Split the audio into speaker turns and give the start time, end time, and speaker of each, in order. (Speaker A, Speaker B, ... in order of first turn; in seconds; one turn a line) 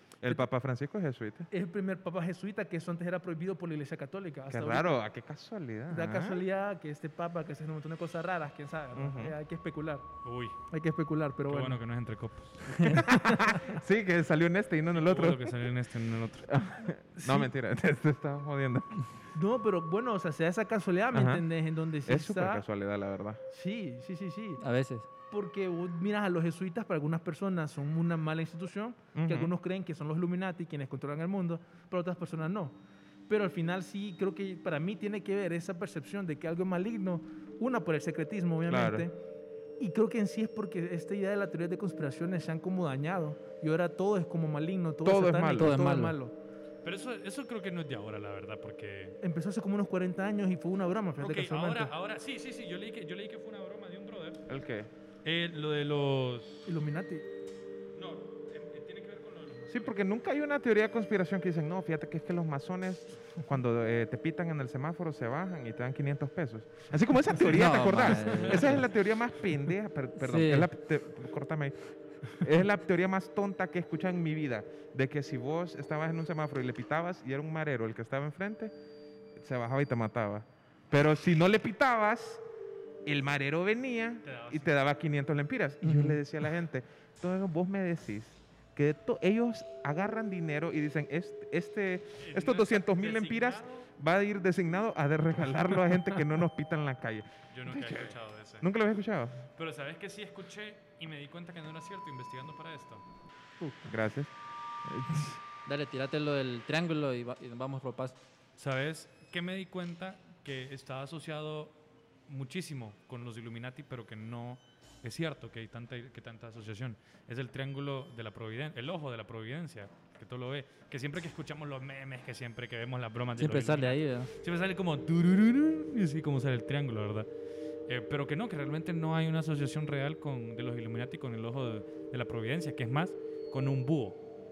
Speaker A: 0.2-1.5
Speaker B: 1.5-5.0
Speaker A: 4.5-6.5
Speaker B: 5.9-10.1
Speaker A: 8.9-9.3
Speaker C: 10.2-10.6
Speaker B: 10.7-11.8
Speaker C: 11.5-13.0
Speaker A: 12.8-15.6
Speaker B: 13.0-13.8
Speaker C: 14.9-16.5
Speaker A: 16.5-19.1
Speaker B: 17.2-17.5
Speaker B: 19.4-22.6
Speaker A: 21.1-21.5
Speaker A: 22.1-23.4
Speaker B: 23.5-24.6
Speaker D: 24.6-25.1
Speaker B: 25.3-32.8
Speaker A: 29.1-29.5
Speaker B: 33.3-39.2
Speaker A: 38.7-39.1
Speaker B: 39.8-46.4
Speaker A: 45.0-45.8
Speaker D: 45.5-46.1
Speaker C: 46.8-49.2
Speaker B: 49.2-51.9
Speaker C: 51.2-54.4
Speaker A: 54.5-54.9
Speaker C: 55.2-56.7
Speaker B: 56.7-57.3
Speaker C: 58.0-59.9
Speaker A: 59.7-71.8
Speaker D: 67.4-68.9
Speaker D: 70.2-70.7
Speaker A: 72.3-78.7
Speaker A: 79.4-82.4
Speaker A: 83.0-99.4
Speaker C: 84.2-84.7
Speaker D: 85.8-86.2
Speaker C: 92.2-93.9
Speaker C: 97.5-98.7
Speaker C: 99.6-103.0
Speaker A: 103.8-104.3
Speaker A: 104.8-105.4
Speaker D: 105.7-108.2
Speaker C: 108.6-111.7
Speaker C: 112.3-127.3
Speaker D: 123.4-124.3
Speaker C: 127.9-134.2